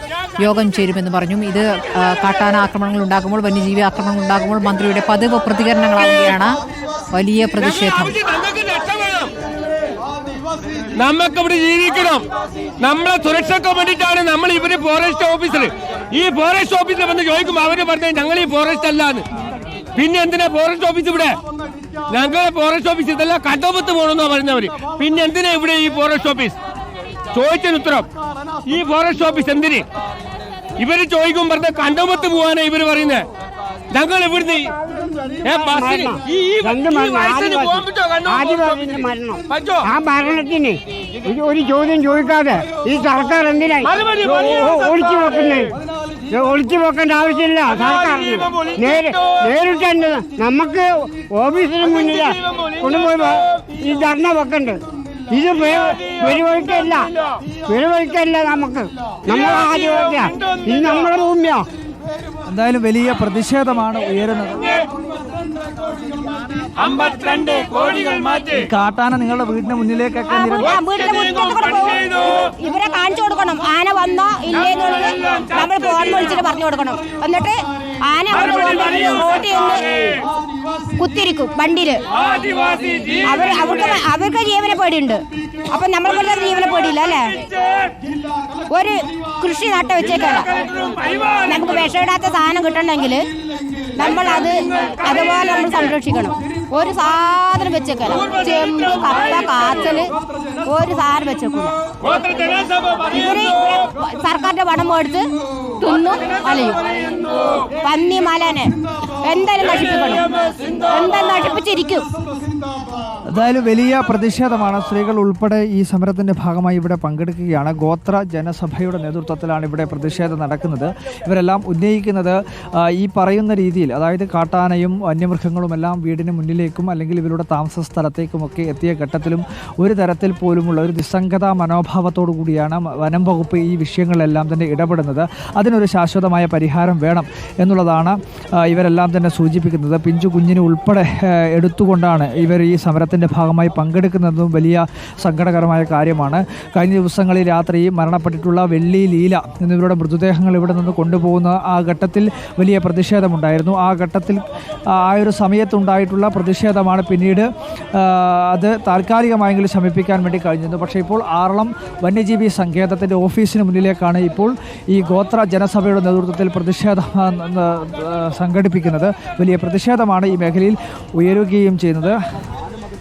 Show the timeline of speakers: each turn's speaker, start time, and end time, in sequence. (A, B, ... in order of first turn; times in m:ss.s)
0:00.4-0:06.6 A
0:07.1-0:08.2 A
0:07.6-0:09.3 B
0:11.0-0:12.3 B
0:12.8-0:19.2 B
0:20.0-0:21.4 B
0:22.1-0:26.6 B
0:27.3-0:28.1 B
0:28.7-0:29.9 B
0:30.8-0:33.3 B
0:33.9-0:34.7 B
0:35.4-0:39.9 B
0:35.5-0:45.6 C
0:43.8-0:45.7 B
0:46.3-0:57.1 C
0:47.6-0:49.6 B
0:51.8-0:53.4 B
0:55.6-0:57.4 B
0:57.7-1:01.7 C
0:59.3-1:01.1 B
1:02.5-1:04.8 D
1:06.8-1:08.7 B
1:08.5-1:10.8 D
1:10.3-1:20.0 E
1:10.8-1:12.2 B
1:21.0-1:22.0 E
1:22.3-1:23.3 B
1:23.2-1:27.4 E
1:28.7-1:30.5 E
1:30.6-1:31.5 B
1:31.4-1:33.3 E
1:34.0-1:40.1 E
1:40.6-1:41.8 E
1:42.0-1:43.1 B
1:43.1-1:45.3 E
1:45.8-1:52.1 E
1:53.3-2:34.4 D
2:35.0-2:52.2 D